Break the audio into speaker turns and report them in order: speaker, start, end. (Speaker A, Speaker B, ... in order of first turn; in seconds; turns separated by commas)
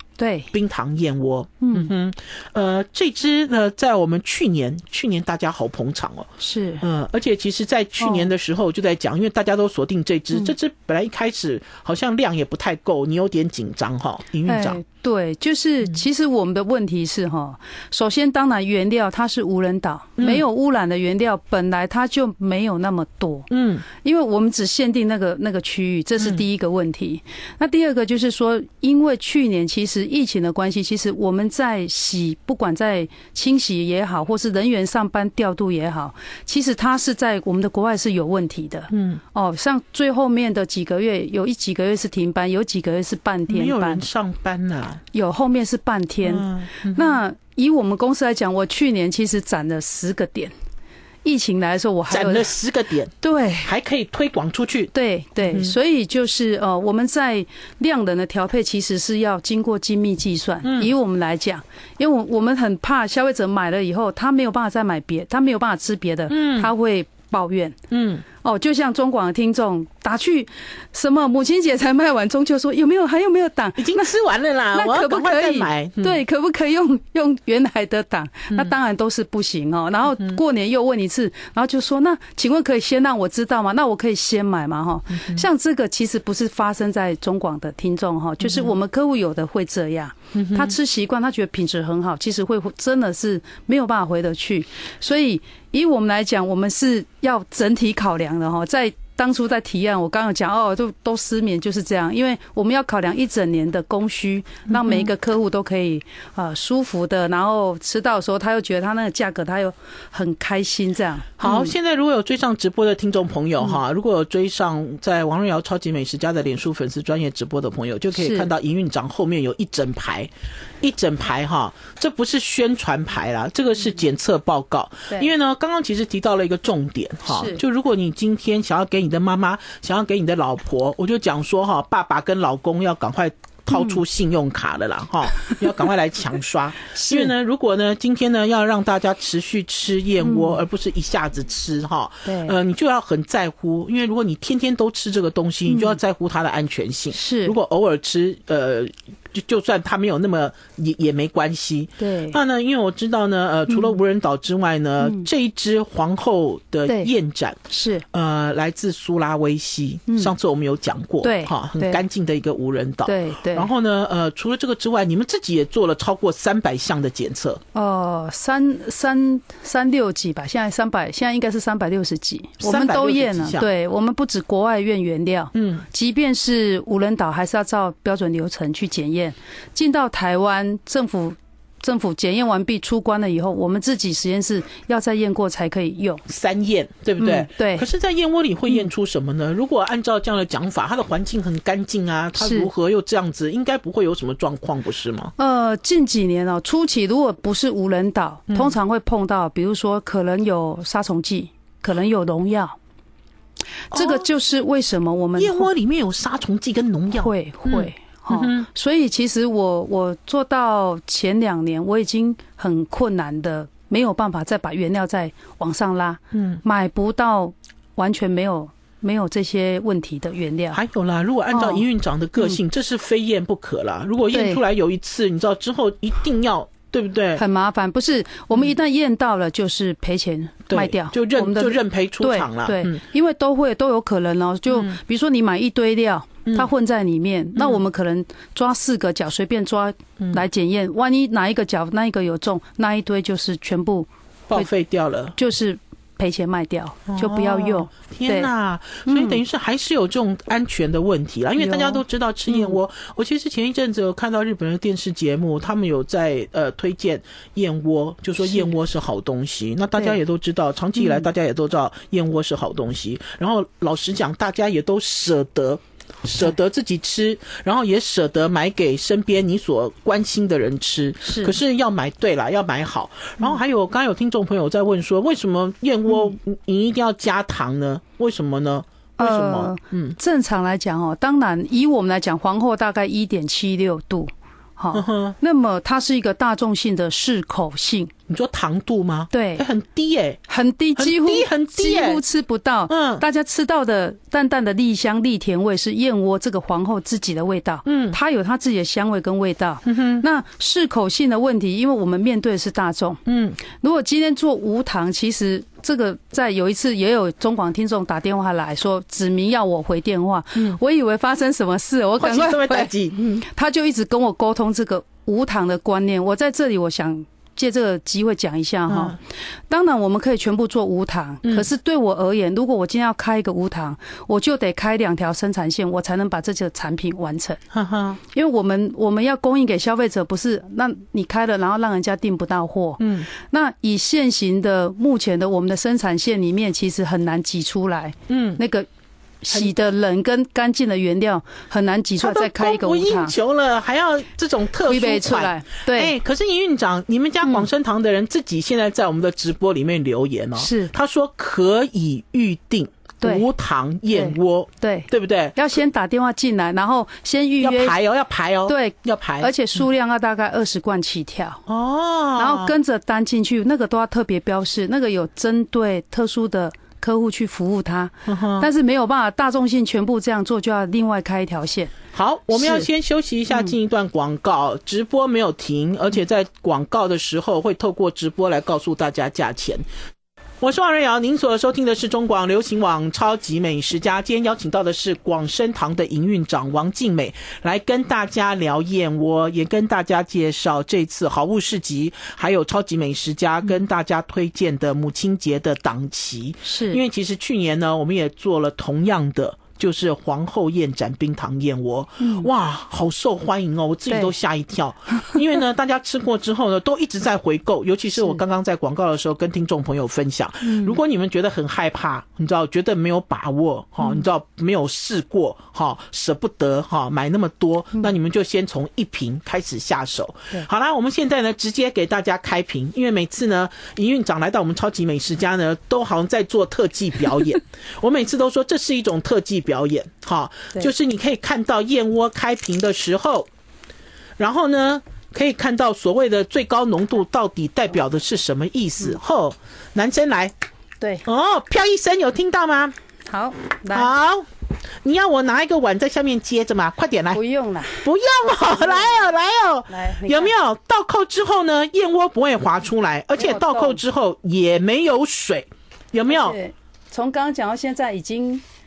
Speaker A: 0.2-0.5, Speaker B: 0.5-6.3, Speaker A: 1.6-1.9, Speaker A: 6.4-6.8, Speaker B: 6.8-14.8, Speaker A: 8.0-8.3, Speaker A: 14.4-44.0, Speaker B: 20.2-20.4, Speaker B: 23.5-23.9, Speaker B: 38.9-39.2, Speaker B: 43.5-45.0, Speaker A: 45.1-50.5, Speaker B: 46.2-47.2, Speaker A: 51.2-52.5, Speaker B: 52.1-53.1, Speaker A: 53.2-53.7, Speaker B: 53.6-54.9, Speaker A: 54.9-67.8, Speaker B: 55.5-55.8, Speaker B: 60.6-60.9, Speaker B: 66.3-66.7, Speaker B: 67.9-68.2, Speaker A: 68.4-74.1, Speaker B: 73.8-76.2, Speaker A: 74.7-111.7, Speaker B: 85.1-85.4, Speaker B: 88.4-88.7, Speaker B: 90.3-90.8, Speaker B: 104.7-105.1, Speaker B: 111.4-157.6, Speaker A: 118.2-118.5, Speaker A: 127.3-127.6, Speaker A: 133.7-134.0, Speaker A: 136.9-137.3, Speaker A: 140.2-140.6, Speaker A: 142.2-142.6, Speaker A: 145.7-146.0, Speaker A: 147.1-147.6, Speaker A: 152.0-152.4, Speaker A: 153.7-153.9, Speaker A: 155.0-155.3, Speaker A: 157.7-158.0, Speaker B: 158.1-167.6, Speaker A: 161.2-162.0, Speaker A: 163.1-163.7, Speaker A: 167.7-186.2, Speaker B: 172.6-173.7, Speaker B: 175.5-175.8, Speaker B: 186.3-195.3, Speaker A: 187.2-187.9, Speaker A: 192.4-192.7, Speaker A: 195.4-202.8, Speaker B: 198.5-198.8, Speaker A: 203.9-205.7, Speaker B: 203.9-204.3, Speaker B: 205.4-208.7, Speaker A: 207.2-220.8, Speaker B: 216.3-216.6, Speaker B: 220.7-227.4, Speaker A: 221.5-221.8, Speaker A: 224.3-224.6, Speaker A: 227.4-244.7, Speaker B: 230.7-233.0, Speaker B: 237.6-237.8, Speaker B: 244.5-245.4, Speaker A: 245.4-248.5, Speaker B: 247.1-280.2, Speaker A: 249.1-249.4, Speaker A: 251.6-252.8, Speaker A: 261.0-261.3, Speaker A: 271.2-271.6, Speaker A: 279.2-288.1, Speaker B: 284.9-285.4, Speaker B: 288.3-290.4, Speaker A: 289.3-289.7, Speaker A: 290.5-327.6, Speaker B: 291.0-292.2, Speaker B: 292.9-293.2, Speaker B: 297.9-298.2, Speaker B: 299.9-300.2, Speaker B: 303.3-303.6, Speaker B: 312.2-313.5, Speaker B: 318.9-319.2, Speaker B: 327.7-328.2, Speaker A: 328.3-338.9, Speaker B: 333.0-333.3, Speaker B: 338.3-338.6, Speaker A: 339.4-343.3, Speaker B: 342.2-355.6, Speaker A: 344.8-346.1, Speaker A: 347.4-347.7, Speaker A: 350.6-350.9, Speaker A: 353.2-353.5, Speaker A: 354.1-358.0, Speaker B: 357.6-359.5, Speaker A: 358.7-361.6, Speaker B: 361.7-362.8, Speaker A: 362.4-371.9, Speaker B: 368.3-368.7, Speaker B: 372.1-379.8, Speaker A: 372.5-372.9, Speaker B: 380.6-433.5, Speaker A: 396.6-397.0, Speaker A: 402.2-402.5, Speaker A: 410.6-411.0, Speaker B: 434.4-440.5, Speaker B: 441.2-442.9, Speaker A: 443.3-444.1, Speaker B: 443.9-444.5, Speaker B: 445.0-447.4, Speaker A: 447.3-448.1, Speaker B: 448.0-456.6, Speaker A: 448.6-449.2, Speaker A: 449.9-450.5, Speaker A: 453.4-454.0, Speaker A: 456.3-458.6